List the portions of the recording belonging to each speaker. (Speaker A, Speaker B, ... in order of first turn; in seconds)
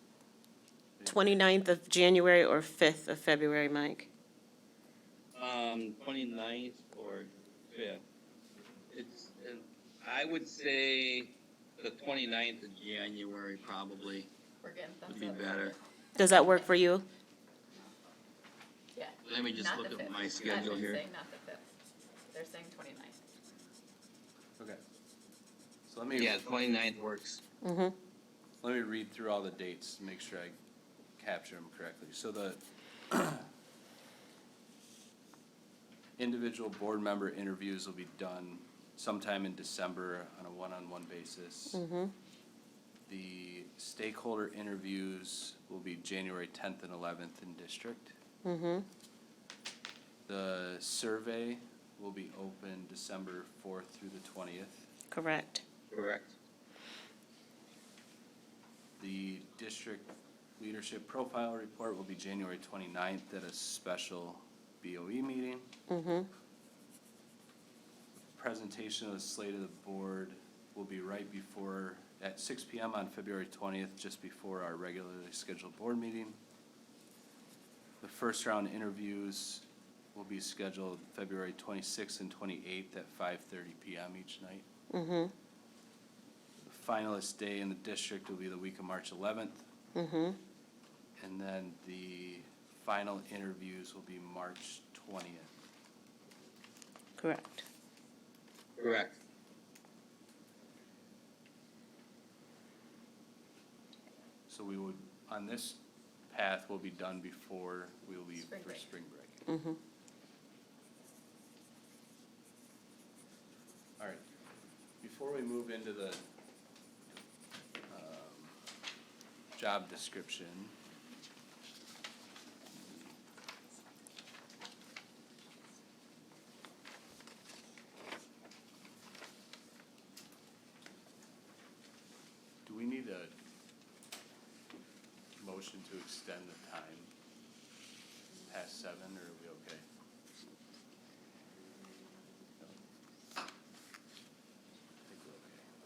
Speaker A: 1.0-1.4, 25.9-26.4, 28.6-30.6, 31.2-33.5, 36.2-41.8, 43.1-48.1, 50.3-54.9, 59.0-65.7, 68.2-76.4, 78.0-84.7, 86.6-89.6, 91.2-95.5, 104.5-109.4, 115.0-116.2, 117.9-118.6, 119.5-120.8, 122.8-123.1, 132.6-133.3, 135.4-137.1, 138.4-139.8, 145.1-145.6
Speaker B: 1.1-4.1, 16.2-17.1, 27.6-27.9, 41.7-42.1, 48.4-48.9, 55.1-55.6, 65.9-66.3, 84.9-85.3, 89.9-90.4, 97.2-97.6, 109.5-109.8
Speaker C: 5.3-8.0, 8.9-14.3, 15.1-15.8, 19.2-21.0, 26.1-27.4, 55.9-56.4, 98.8-99.2
Speaker D: 14.6-16.7, 18.9-21.7, 22.3-23.3, 108.4-108.8